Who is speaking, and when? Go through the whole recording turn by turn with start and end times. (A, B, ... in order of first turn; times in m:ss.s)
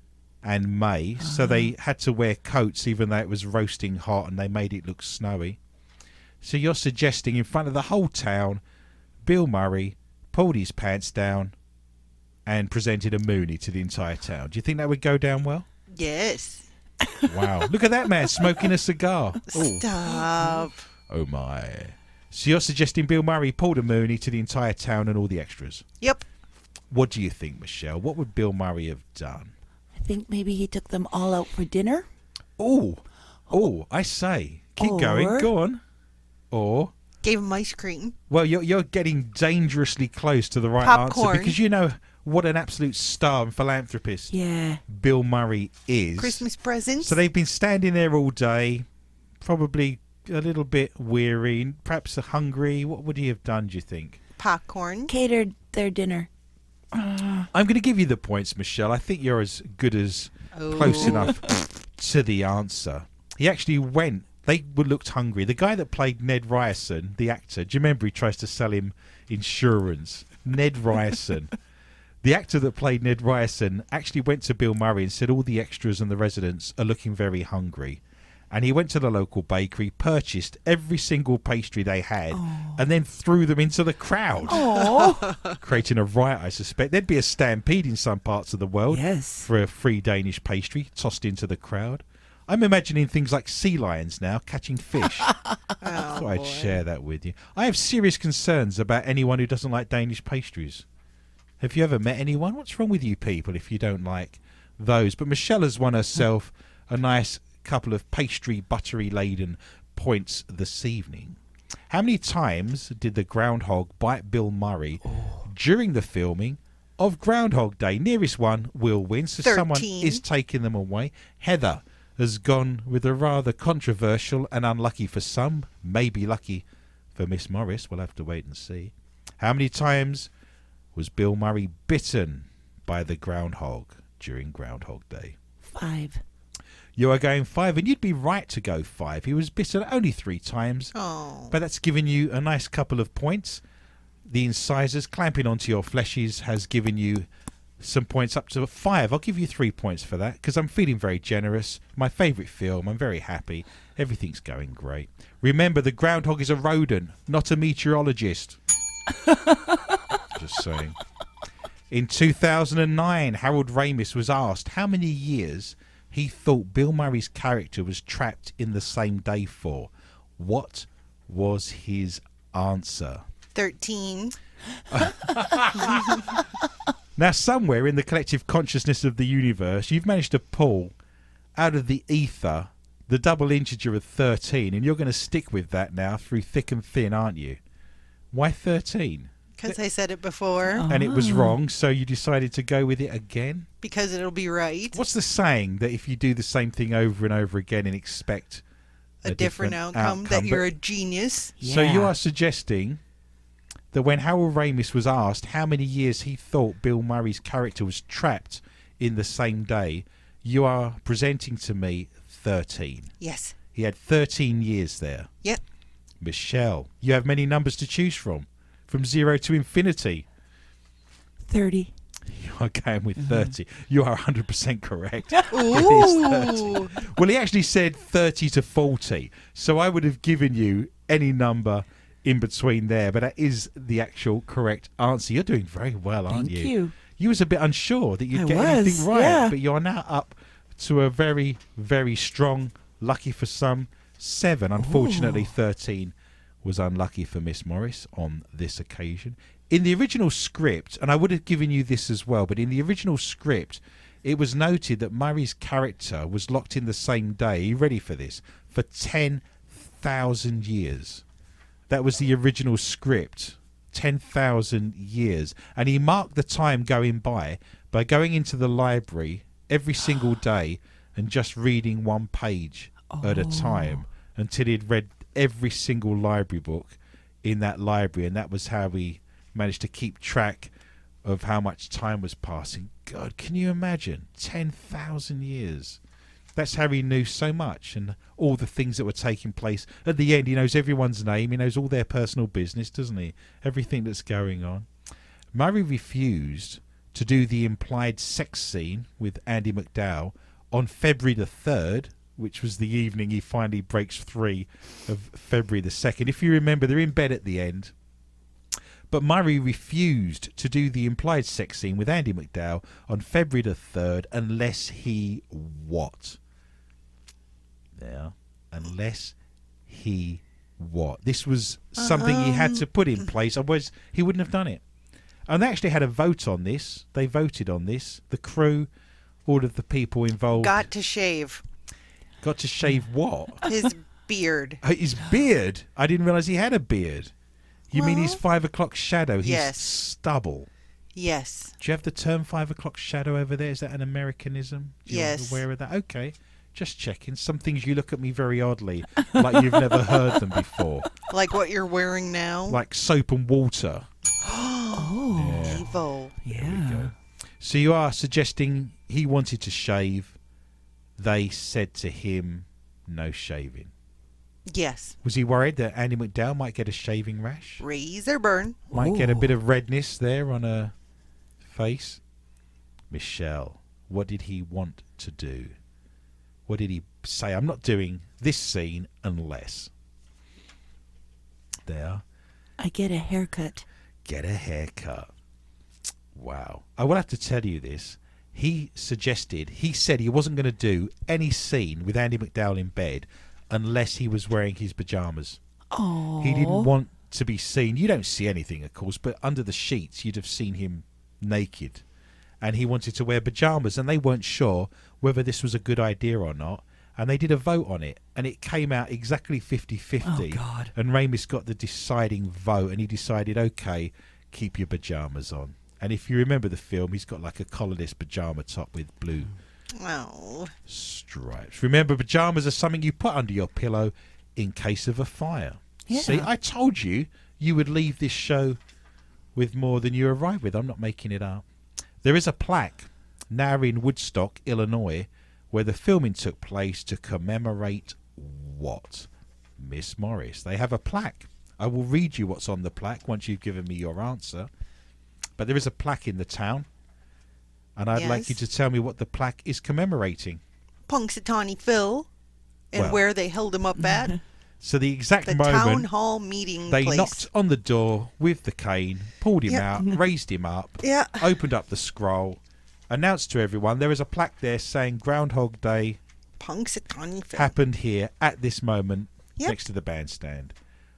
0:00.4-0:05.6 A
0:01.2-0:01.7 B
0:06.4-0:08.6 A
0:09.2-0:11.5 A
0:12.4-0:15.6 A
0:15.9-0:16.7 C
0:17.0-0:17.3 B
0:17.2-0:19.9 A
0:19.5-0:20.8 C
0:21.1-0:25.8 A
0:26.9-0:29.5 A
0:29.9-0:32.0 B
0:32.6-0:35.8 A
0:34.8-0:35.5 B
0:36.5-0:36.9 A
0:37.2-0:38.1 C
0:38.3-0:44.3 A
0:40.8-0:41.6 C
0:44.3-0:44.8 B
0:44.9-0:46.4 A
0:46.2-0:47.2 C
0:47.0-0:48.8 A
0:49.4-0:54.2 A
0:54.4-0:55.1 C
0:55.1-0:56.3 B
0:57.1-1:11.5 A
1:00.5-1:01.3 C
1:00.8-1:01.3 B
1:12.2-1:35.3 A
1:22.3-1:22.8 B
1:24.4-1:25.3 B
1:24.6-1:25.5 C
1:28.9-1:29.5 B
1:35.3-1:35.6 B
1:35.8-1:36.8 C
1:35.9-1:40.8 A
1:41.6-1:51.4 A
1:51.9-2:10.3 A
1:55.1-1:55.4 B
1:59.4-2:00.2 C
2:10.9-2:15.4 A
2:15.6-2:16.2 B
2:17.0-2:20.9 A
2:20.9-2:21.5 C
2:21.5-2:23.6 A
2:24.3-2:27.3 A
2:27.8-2:38.6 A
2:39.2-2:40.0 B
2:40.3-2:41.0 A
2:41.9-2:53.2 A
2:53.5-2:54.4 C
2:54.9-2:56.1 A
2:55.8-2:56.2 C
2:57.2-3:00.9 A
3:01.6-3:07.6 A
3:08.3-3:09.8 A
3:09.6-3:10.8 C
3:10.7-3:11.6 B
3:10.9-3:13.7 A
3:13.8-3:15.0 C
3:14.9-3:18.6 A
3:19.2-3:21.6 C
3:19.2-3:20.7 A
3:21.6-3:22.1 B
3:21.6-3:23.0 A
3:23.9-3:33.1 A
3:33.2-3:33.5 C
3:33.7-3:35.3 A
3:36.2-3:40.2 A
3:41.5-3:41.9 B
3:42.2-4:21.2 A
3:43.2-3:43.5 B
3:45.3-3:45.9 B
3:45.5-3:46.9 C
3:56.3-3:56.9 B
3:58.3-3:59.5 B
4:04.8-4:05.5 B
4:21.9-4:40.7 A
4:33.1-4:34.0 B
4:41.2-4:46.0 A
4:46.6-4:54.9 A
4:55.5-5:07.9 A
5:09.1-5:16.4 A
5:18.0-5:19.4 A
5:19.9-5:24.8 A
5:22.0-5:22.8 C
5:25.5-5:28.9 A
5:29.4-5:30.8 A
5:30.5-5:31.6 C
5:32.4-5:33.7 A
5:33.6-5:34.8 C
5:34.8-5:37.3 A
5:37.9-5:40.7 A
5:37.9-5:38.4 C
5:39.4-5:39.9 C
5:41.1-5:41.7 C
5:41.8-5:51.1 A
5:45.1-5:45.6 C
5:51.3-5:52.8 C
5:52.7-5:54.1 A
5:54.4-5:56.3 C
5:54.9-5:55.8 B
5:55.3-5:55.9 A
5:56.4-6:00.4 A
5:56.4-5:57.1 B
6:01.2-6:03.9 A
6:04.7-6:05.2 C
6:05.2-6:07.8 A
6:07.8-6:08.8 C
6:08.9-6:09.5 B
6:08.9-6:10.9 A
6:11.6-6:12.2 A
6:13.1-6:15.7 A
6:16.7-6:19.9 A
6:21.8-6:22.2 A
6:22.8-6:23.8 B
6:24.2-6:25.3 A
6:26.3-6:35.6 A
6:35.9-6:36.9 B
6:36.4-6:42.0 A
6:42.6-6:59.5 A
6:50.2-6:50.9 B
7:00.0-7:00.7 C
7:00.9-7:08.8 A
7:06.1-7:06.5 B
7:09.6-7:11.6 A
7:12.2-7:24.7 A
7:25.6-7:26.9 A
7:28.0-7:30.6 A
7:28.1-7:28.6 C
7:31.1-7:32.3 C
7:32.9-7:34.4 C
7:32.9-7:33.2 A
7:34.0-7:34.3 B
7:34.8-7:36.1 A
7:35.4-7:37.4 C
7:36.9-7:46.2 A
7:39.7-7:39.9 C
7:41.0-7:41.5 C
7:46.6-7:47.7 C
7:47.5-7:50.7 A